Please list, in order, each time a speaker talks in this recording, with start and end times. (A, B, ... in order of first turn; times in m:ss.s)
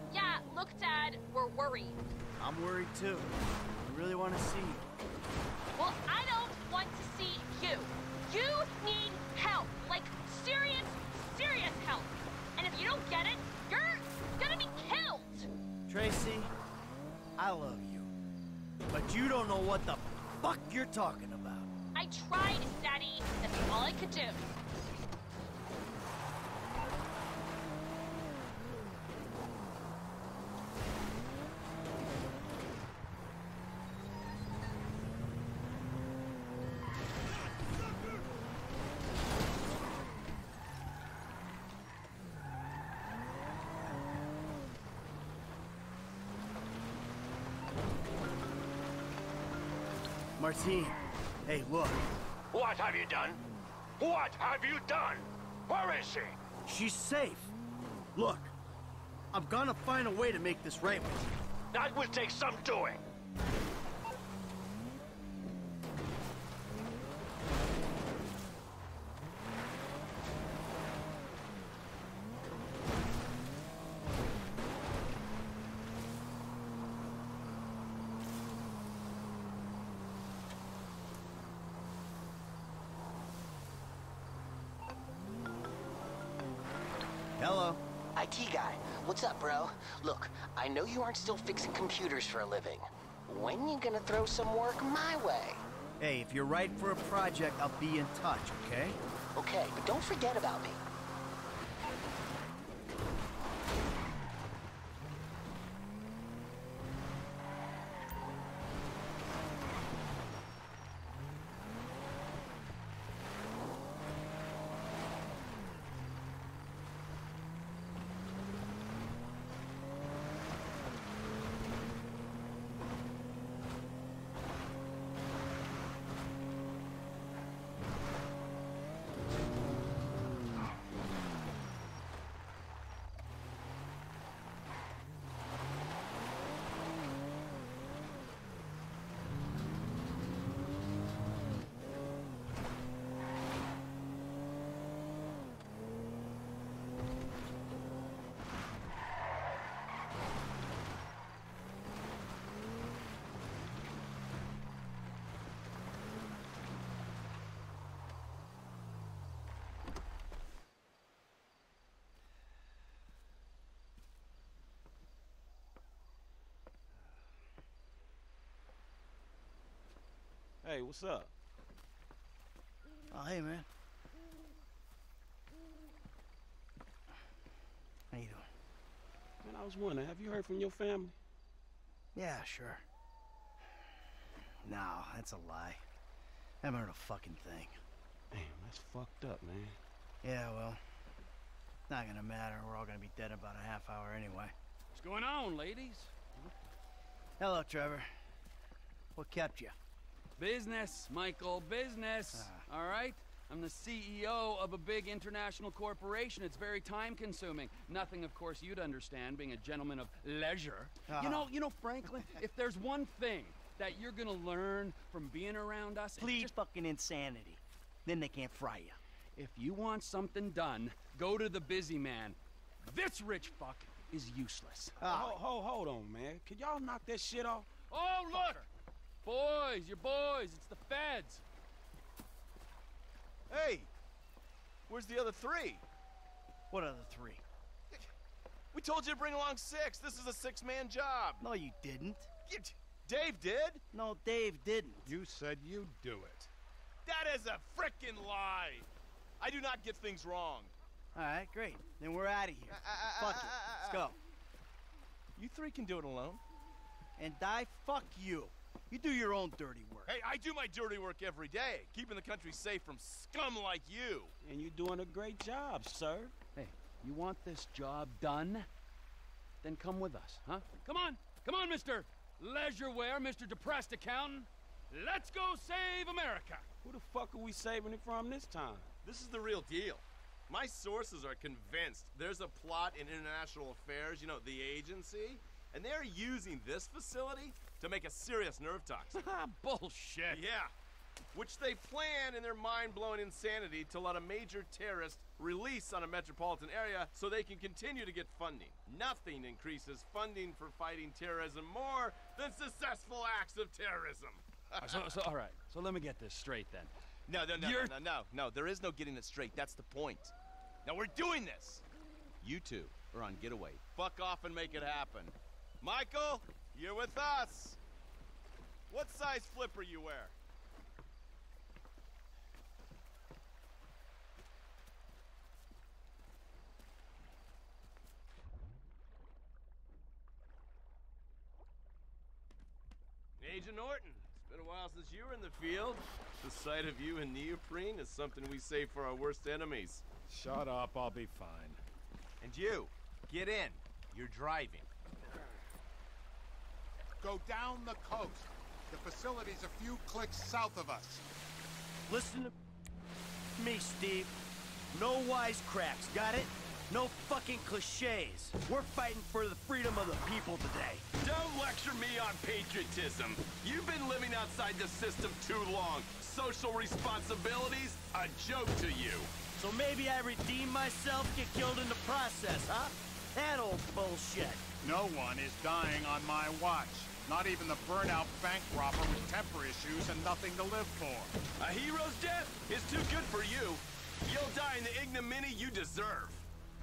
0:00.1-0:02.0 A
0:02.4-0:04.9 B
0:05.7-0:15.5 A
0:15.9-0:16.5 B
0:17.4-0:18.1 B
0:18.9-0:21.7 B
0:21.9-0:24.5 A
0:50.4-0:52.1 B
0:52.5-0:53.4 C
0:54.0-0:56.4 C
0:56.6-0:57.5 B
0:58.1-0:58.5 B
0:59.3-1:01.3 B
1:01.7-1:03.0 C
1:27.4-1:27.8 B
1:28.2-1:35.6 D
1:36.0-1:39.0 B
1:39.4-1:40.8 D
2:50.6-2:51.3 E
2:53.1-2:53.7 B
2:58.1-2:58.5 B
2:59.4-3:01.2 E
3:02.1-3:02.8 B
3:04.6-3:05.8 B
3:06.6-3:07.8 B
3:08.3-3:09.8 E
3:10.2-3:10.8 B
3:11.9-3:14.5 B
3:14.9-3:16.2 F
3:17.4-3:18.1 B
3:19.2-3:19.8 B
3:20.4-3:36.5 F
3:22.3-3:22.6 B
3:31.1-3:31.5 B
3:36.2-3:39.0 B
3:39.4-3:45.0 F
3:45.0-3:45.4 B
3:45.0-3:47.7 E
3:47.9-3:48.7 F
3:49.2-3:51.4 F
3:53.5-3:53.9 G
3:54.9-3:55.8 G
3:56.7-3:57.4 B
3:58.7-4:01.4 G
4:01.4-4:02.3 B
4:02.5-4:03.8 G
4:03.9-4:05.1 B
4:05.0-4:06.5 H
4:07.0-4:08.9 G
4:09.4-4:10.7 G
4:11.1-4:14.2 B
4:12.7-4:14.0 G
4:15.4-4:16.4 G
4:17.2-4:20.1 B
4:20.0-4:24.3 G
4:24.4-4:26.3 E
4:26.6-4:28.7 F
4:29.6-4:36.6 F
4:36.8-4:38.9 E
4:39.0-4:49.2 G
4:49.1-4:50.4 F
4:50.3-4:50.7 G
4:51.3-5:05.1 G
5:04.8-5:06.9 F
5:07.3-5:10.3 G
5:07.5-5:07.9 F
5:10.8-5:11.8 G
5:12.4-5:17.8 G
5:18.9-5:20.3 G
5:33.4-5:40.0 G
5:40.3-5:41.8 H
5:42.4-5:44.8 G
5:47.2-5:51.2 H
5:52.1-5:52.5 B
5:53.6-5:54.4 B
5:54.9-6:01.0 B
6:01.2-6:09.3 G
6:09.6-6:14.6 B
6:14.8-6:21.3 H
6:21.6-6:26.4 G